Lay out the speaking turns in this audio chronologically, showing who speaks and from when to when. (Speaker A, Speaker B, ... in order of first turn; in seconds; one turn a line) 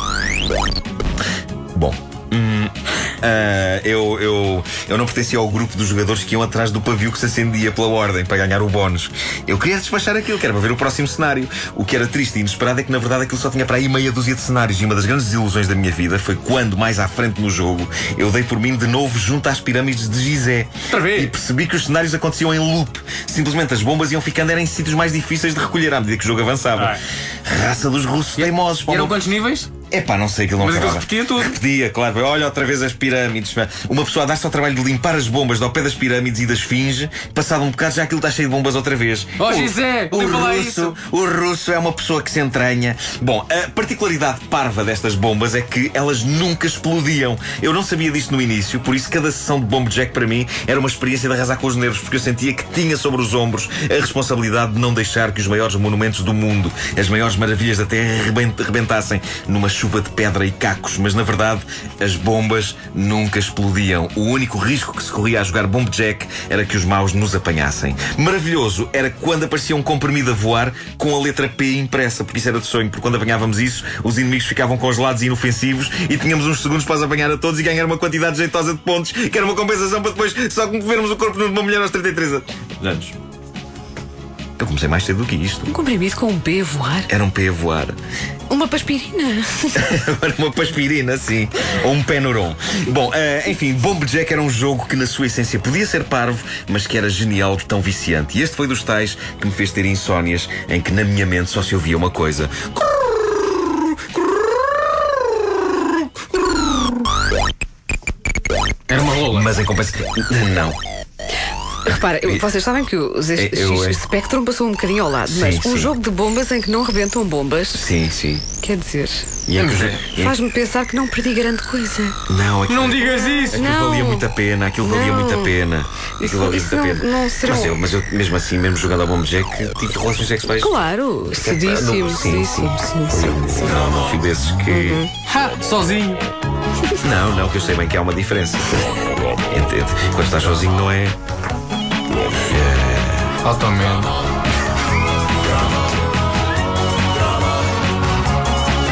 Speaker A: 1.7-29.2
Speaker B: 20.9-21.3
Speaker B: 26.7-27.0
Speaker B: 28.4-29.7
Speaker A: 29.9-83.2
Speaker B: 30.6-31.6
Speaker B: 39.4-41.0
Speaker A: 84.6-85.7
Speaker C: 85.7-87.1
Speaker A: 87.1-88.0
Speaker C: 88.5-89.7
Speaker A: 89.7-107.1
Speaker B: 108.9-109.6
Speaker A: 109.2-110.8
Speaker C: 111.8-117.8
Speaker A: 112.2-112.4
Speaker A: 113.3-114.0
Speaker A: 115.2-115.9
Speaker A: 117.7-118.5
Speaker C: 118.6-119.3
Speaker A: 119.5-120.4
Speaker B: 119.5-120.0
Speaker C: 120.2-122.2
Speaker A: 122.3-130.8
Speaker B: 122.7-123.7
Speaker C: 123.2-124.2
Speaker C: 124.8-125.5
Speaker C: 126.2-127.7
Speaker C: 130.6-133.7
Speaker A: 131.3-135.1
Speaker C: 134.7-135.1
Speaker B: 135.3-136.2
Speaker A: 137.0-138.9
Speaker A: 139.5-141.2
Speaker A: 142.4-143.3
Speaker B: 143.4-144.1